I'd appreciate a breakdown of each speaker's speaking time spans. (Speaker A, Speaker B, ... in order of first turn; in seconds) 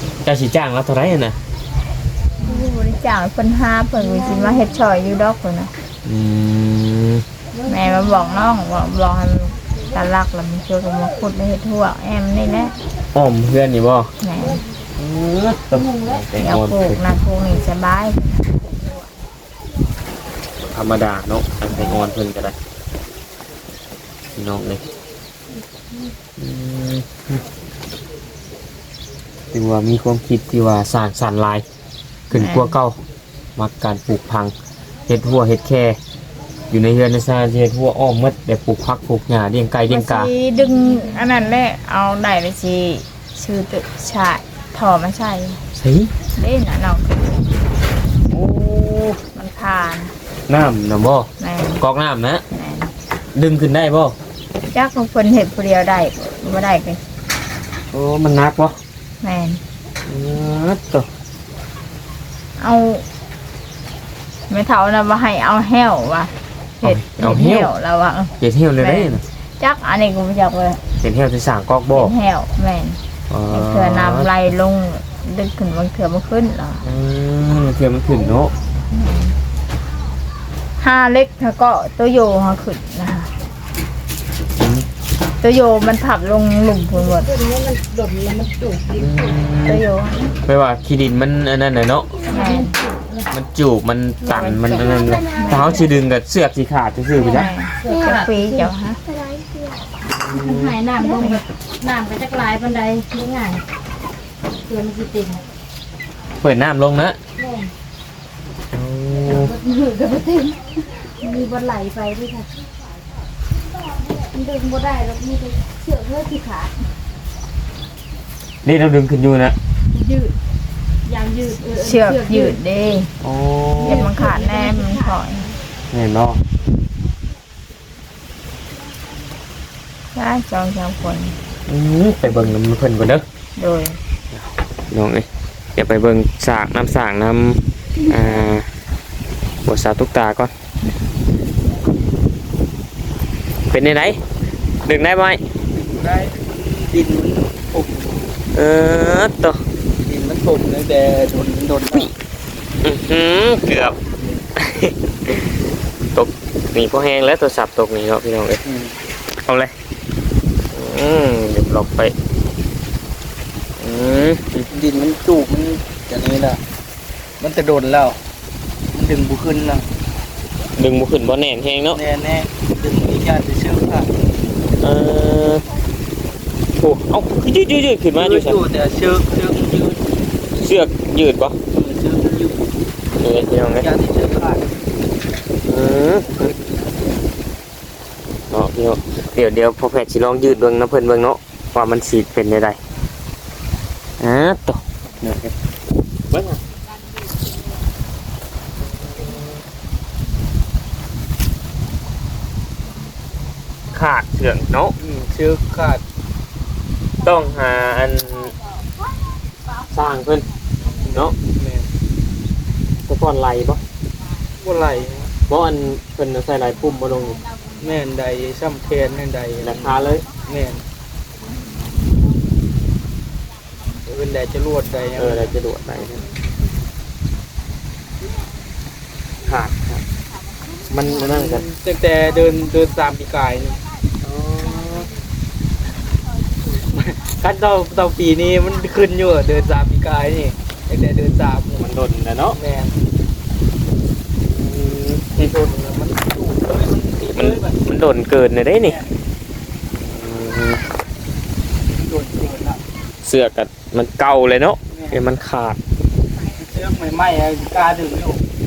Speaker A: 0.2-1.4, 6.0-7.2, 13.1-14.1, 14.9-17.0, 20.6-22.6, 24.3-24.8, 26.4-27.4, 29.5-31.6, 32.3-33.0, 33.5-34.5, 35.1-36.0, 36.7-40.3, 45.8-46.1, 48.3-49.2, 50.5-51.3, 51.8-52.4, 53.3-54.1, 57.9-58.8, 60.0-61.1, 66.8-67.7, 68.4-69.2, 71.0-72.1, 73.3-74.3, 76.8-78.5, 84.6-84.9, 88.9-89.8, 90.4-92.1, 93.3-97.5, 100.1-100.8, 106.4-107.2, 108.7-109.5, 118.6-119.5, 123.2-124.1, 125.9-126.4, 131.7-133.2, 134.3-138.7, 139.6-140.5, 143.7-144.2, 144.8-145.4, 148.5-149.6, 152.8-154.0, 154.6-155.5, 156.1-158.6, 159.4-159.7, 160.7-162.1, 163.8-164.7, 170.8-172.0, 174.8-175.6, 176.8-178.6, 180.6-181.6, 183.2-183.9, 185.6-186.5, 188.5-192.8, 194.2-195.5, 196.3-196.6, 198.8-199.5, 203.9-204.9, 207.2-208.6, 209.9-210.5, 211.0-211.3, 213.1-213.8, 215.5-217.4, 219.6-220.2, 225.2-226.2, 229.4-230.0, 230.9-231.7, 234.2-235.1, 241.8-242.6, 244.4-245.5, 247.4-249.0, 249.9-250.8, 253.2-255.8
Speaker B: 2.4-5.7, 7.7-12.7, 14.2-14.6, 16.4-19.1, 21.7-22.0, 32.3-32.7, 39.9-45.6, 46.3-47.2, 49.3-50.1, 51.4-51.8, 52.5-52.9, 54.7-57.0, 59.2-59.6, 62.6-63.0, 64.5-70.8, 71.9-73.0, 73.5-76.8, 78.9-79.3, 80.8-83.3, 85.4-87.4, 89.7-90.3, 92.3-92.8, 94.3-95.9, 97.3-99.0, 121.7-123.1, 123.8-125.5, 130.1-131.4, 133.6-134.0
Speaker C: 15.7-16.1, 87.3-89.3, 92.2-93.3, 94.9-95.5, 97.4-99.7, 100.3-103.6, 104.6-105.4, 107.4-107.7, 109.3-112.5, 114.1-116.8, 119.9-120.3, 121.0-122.5, 123.8-125.5
Speaker D: 145.7-148.2, 150.0-152.1, 158.6-158.9, 164.7-166.6, 167.4-168.2, 168.9-169.9, 171.9-174.1, 178.1-180.0, 181.7-182.7, 183.7-184.7, 205.0-206.0, 211.4-211.9, 214.6-215.3, 217.8-220.8, 224.1-225.6, 231.2-233.8, 236.8-241.9, 242.5-242.9, 245.3-247.8, 248.8-249.2, 251.9-252.8, 254.9-255.2, 256.6-258.4